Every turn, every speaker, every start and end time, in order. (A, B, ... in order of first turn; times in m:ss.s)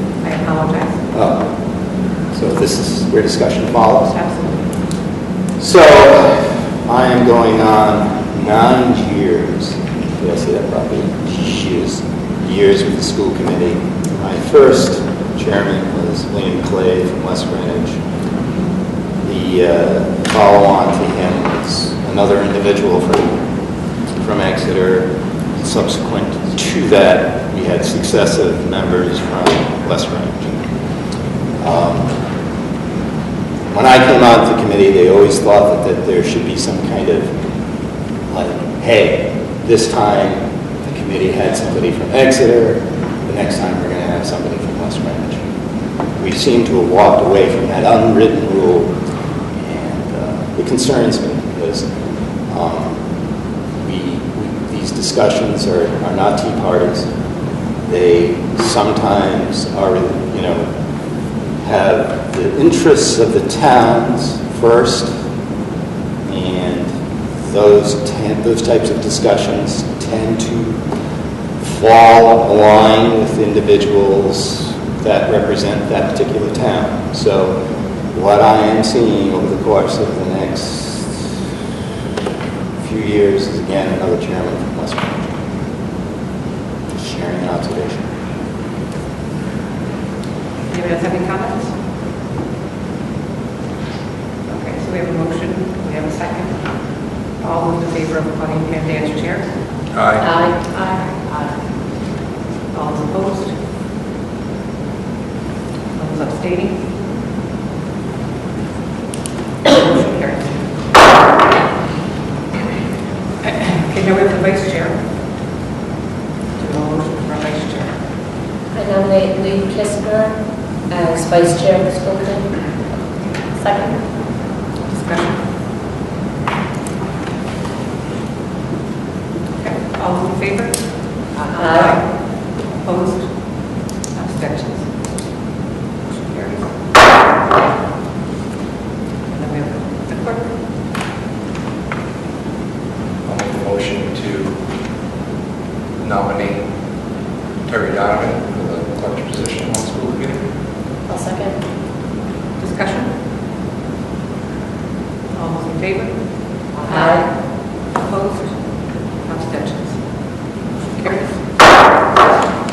0:00.2-0:01.0 A
0:01.1-0:01.5 B
0:02.3-0:04.2 B
0:04.2-0:04.5 A
0:05.6-0:18.0 B
0:19.2-0:23.4 B
0:24.2-0:30.6 B
0:31.6-0:32.2 B
0:33.7-0:37.3 B
0:38.3-0:45.4 B
0:46.2-0:48.9 B
0:49.6-0:51.9 B
0:52.5-0:53.0 B
0:53.8-0:57.1 B
0:57.9-1:00.7 B
1:01.6-1:05.1 B
1:06.2-1:10.8 B
1:11.6-1:17.6 B
1:18.1-1:21.3 B
1:22.8-1:25.3 B
1:26.9-1:28.1 B
1:30.7-1:31.7 A
1:34.5-1:36.6 A
1:37.4-1:39.4 A
1:39.9-1:40.3 C
1:40.2-1:40.8 D
1:42.7-1:43.5 A
1:46.0-1:46.8 A
1:49.7-1:50.6 A
1:53.4-1:55.0 A
1:56.6-1:57.9 A
1:58.7-2:02.6 D
2:03.6-2:04.0 D
2:04.9-2:05.4 A
2:09.6-2:10.8 A
2:11.5-2:12.0 D
2:12.8-2:13.3 A
2:14.1-2:14.8 A
2:16.1-2:16.7 A
2:19.3-2:20.4 A
2:23.2-2:24.5 C
2:26.0-2:26.7 C
2:27.7-2:30.4 C
2:31.1-2:31.6 D
2:32.6-2:33.1 A
2:35.3-2:36.2 A
2:36.8-2:37.3 D
2:36.8-2:37.3 A
2:37.9-2:38.6 A
2:39.2-2:40.0 A
2:41.0-2:41.3 A